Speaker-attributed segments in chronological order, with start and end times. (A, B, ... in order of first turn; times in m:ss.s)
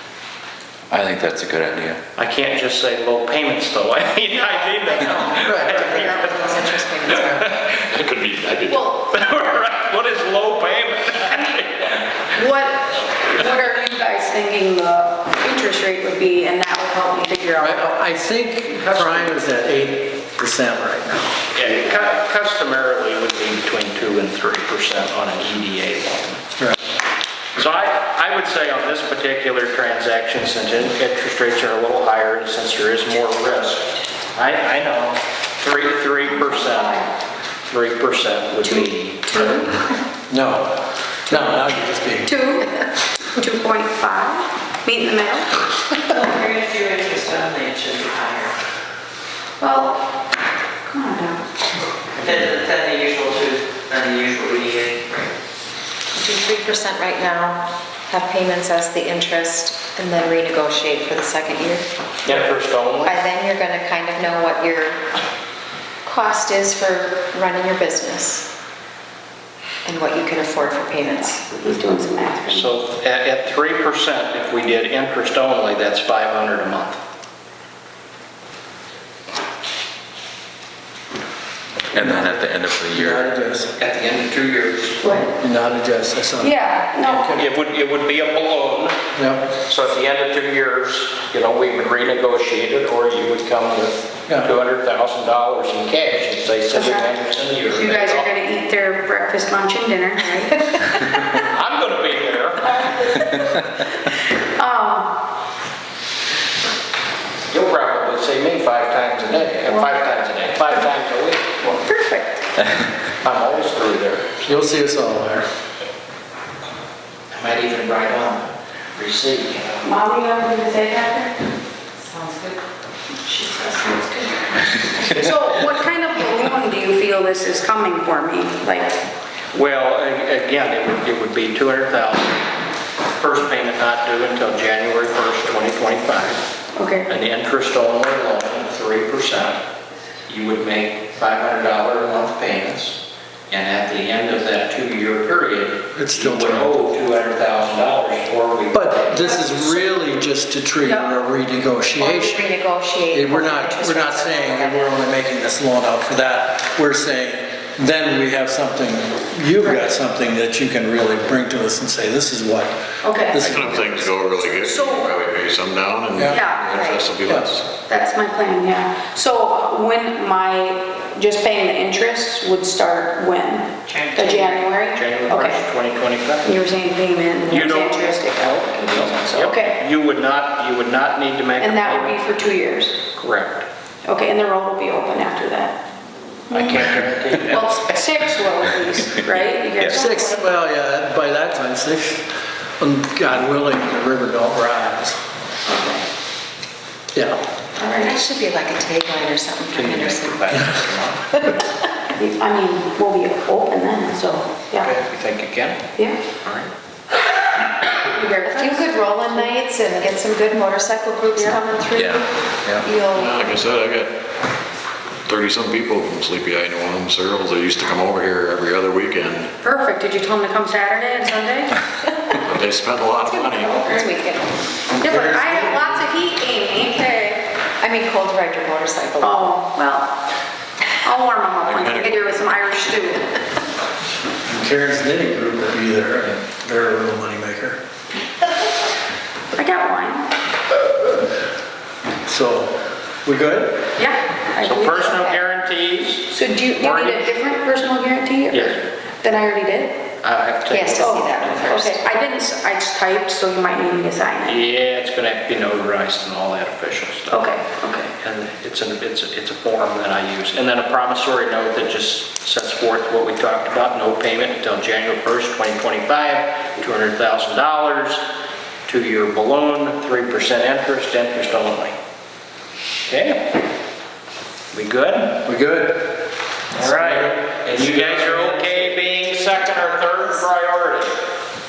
0:00.9-0:02.0 A
0:02.2-0:07.7 B
0:04.6-0:07.5 C
0:05.4-0:05.8 D
0:07.6-0:08.9 E
0:08.7-0:12.3 B
0:12.3-0:17.9 F
0:17.6-0:21.4 D
0:18.9-0:19.3 B
0:21.5-0:26.4 B
0:27.6-0:37.0 B
0:36.2-0:37.1 F
0:37.7-0:39.7 B
0:38.6-0:39.7 F
0:40.3-0:42.3 D
0:42.2-0:45.6 F
0:46.1-0:48.5 G
0:49.6-0:50.0 F
0:50.8-0:51.4 F
0:52.2-0:52.5 B
0:52.2-0:55.3 G
0:56.1-1:01.8 C
1:02.2-1:03.2 B
1:03.0-1:05.0 C
1:06.0-1:08.5 C
1:09.8-1:11.4 C
1:11.5-1:12.7 F
1:12.5-1:17.0 B
1:21.9-1:23.7 D
1:22.0-1:23.2 A
1:23.8-1:25.0 B
1:25.0-1:25.3 F
1:25.4-1:27.4 D
1:26.4-1:27.3 F
1:27.0-1:28.9 B
1:29.2-1:29.5 D
1:29.6-1:38.3 B
1:36.7-1:37.1 F
1:37.7-1:41.4 F
1:41.4-1:42.7 B
1:42.6-1:45.1 F
1:47.5-1:51.4 B
1:51.6-1:52.5 F
1:53.2-1:54.4 B
1:54.4-1:55.5 D
1:57.3-1:59.9 B
1:59.8-2:01.3 F
2:02.0-2:02.6 C
2:03.2-2:09.0 F
2:09.5-2:12.4 B
2:13.2-2:16.4 B
2:16.7-2:17.1 F
2:17.1-2:19.6 B
2:20.3-2:23.0 B
2:23.5-2:29.4 B
2:25.9-2:26.7 D
2:28.7-2:32.5 D
2:29.4-2:30.1 F
2:30.8-2:31.2 F
2:32.0-2:34.9 C
2:33.1-2:44.1 D
2:43.0-2:43.6 F
2:43.4-2:47.7 E
2:44.4-2:45.1 F
2:46.1-2:46.4 D
2:46.3-2:46.8 F
2:46.7-2:47.0 C
2:47.2-2:47.5 D
2:47.9-2:55.6 F
2:53.9-2:54.6 G
2:54.9-2:56.5 B
2:56.4-2:59.8 F
2:57.5-3:02.2 B
3:01.6-3:03.0 F
3:03.1-3:03.6 B
3:04.0-3:05.8 F
3:06.5-3:06.9 F
3:06.5-3:07.7 B
3:07.5-3:10.5 F
3:09.8-3:12.2 D
3:12.8-3:15.2 D
3:15.7-3:16.0 F
3:17.1-3:17.4 D
3:17.8-3:18.2 F
3:18.0-3:20.6 C
3:19.7-3:21.2 B
3:20.5-3:20.8 D
3:21.3-3:21.6 C
3:22.2-3:25.0 F
3:24.8-3:25.8 B
3:26.0-3:26.2 F
3:26.4-3:26.7 B
3:28.0-3:29.6 F
3:28.4-3:32.3 C
3:31.3-3:31.6 F
3:32.8-3:33.7 C
3:33.1-3:34.2 E
3:35.3-3:39.5 E
3:39.6-3:41.8 F
3:42.1-3:42.4 C
3:42.4-3:43.9 E
3:43.3-3:44.1 F
3:43.9-3:44.5 C
3:44.9-3:46.0 D
3:45.0-3:47.5 F
3:47.8-3:49.5 C
3:49.2-3:50.2 F
3:51.0-3:53.3 F
3:51.7-3:52.1 E
3:54.4-3:57.8 D
3:59.5-4:00.3 F
4:02.2-4:03.8 D
4:04.0-4:05.4 F
4:04.6-4:07.2 B
4:06.3-4:10.0 F
4:08.5-4:08.9 B
4:10.2-4:11.7 B
4:10.7-4:12.0 C
4:10.9-4:14.6 F
4:14.4-4:17.4 B
4:17.3-4:18.1 F
4:18.2-4:28.2 B
4:28.9-4:32.0 B
4:33.0-4:33.6 B
4:34.7-4:35.4 B
4:35.4-4:36.1 D
4:36.7-4:41.2 B
4:36.8-4:38.9 D